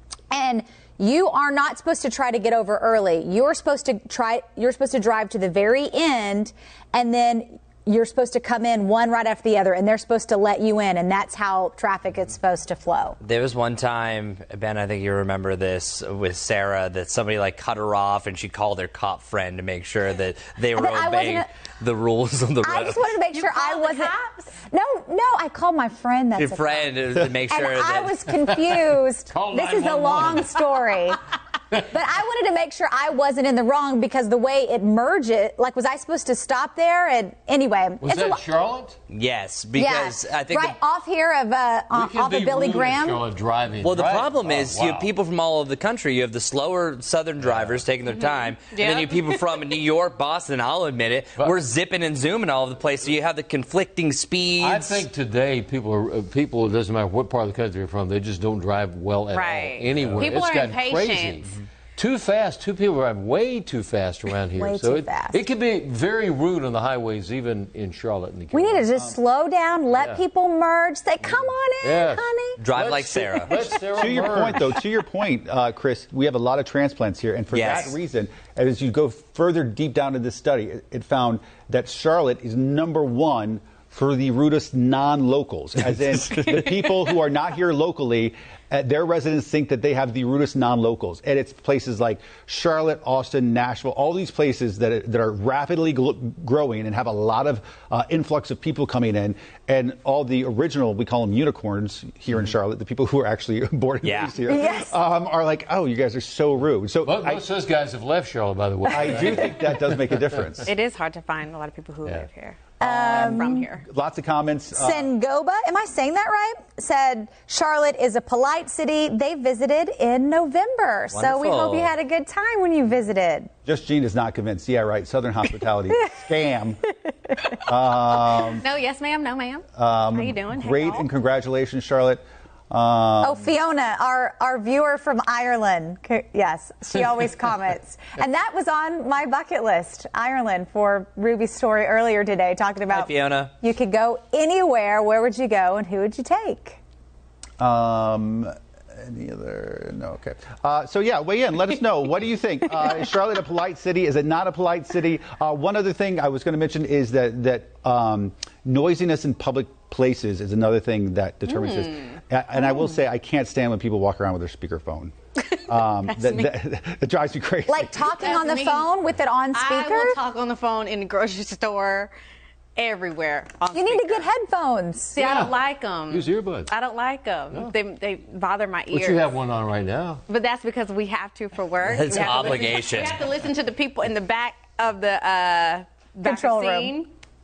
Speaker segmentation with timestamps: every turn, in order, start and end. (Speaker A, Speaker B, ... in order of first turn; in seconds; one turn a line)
Speaker A: 0.3-13.2
Speaker B: 13.2-23.2
Speaker A: 20.7-21.5
Speaker A: 22.6-26.9
Speaker C: 23.3-24.5
Speaker B: 26.4-28.2
Speaker A: 27.5-31.2
Speaker D: 28.5-30.6
Speaker A: 31.8-38.4
Speaker D: 38.0-39.0
Speaker B: 39.1-40.8
Speaker A: 39.8-43.2
Speaker D: 41.9-45.1
Speaker B: 43.8-55.1
Speaker D: 47.4-47.8
Speaker C: 48.3-49.2
Speaker D: 54.6-68.9
Speaker C: 59.3-61.5
Speaker A: 64.5-65.4
Speaker A: 68.5-72.6
Speaker D: 69.9-70.2
Speaker D: 71.2-74.7
Speaker B: 72.6-73.5
Speaker E: 73.5-107.5
Speaker B: 77.5-78.0
Speaker B: 104.0-104.4
Speaker A: 104.5-105.0
Speaker D: 107.0-110.5
Speaker E: 108.9-110.7
Speaker C: 110.7-113.8
Speaker A: 112.8-113.7
Speaker E: 113.8-115.1
Speaker A: 114.7-123.5
Speaker B: 121.1-121.9
Speaker E: 123.6-126.8
Speaker E: 127.5-128.6
Speaker C: 128.6-131.1
Speaker E: 129.8-133.5
Speaker A: 133.2-146.8
Speaker B: 142.9-143.5
Speaker E: 147.6-165.1
Speaker C: 161.5-162.2
Speaker E: 165.7-168.1
Speaker C: 166.1-166.5
Speaker A: 167.7-170.2
Speaker C: 168.2-168.9
Speaker C: 169.5-172.1
Speaker C: 172.8-174.3
Speaker A: 173.7-175.2
Speaker C: 175.1-179.2
Speaker D: 175.2-176.7
Speaker D: 178.9-180.2
Speaker C: 180.3-187.1
Speaker B: 181.9-183.2
Speaker A: 186.2-186.9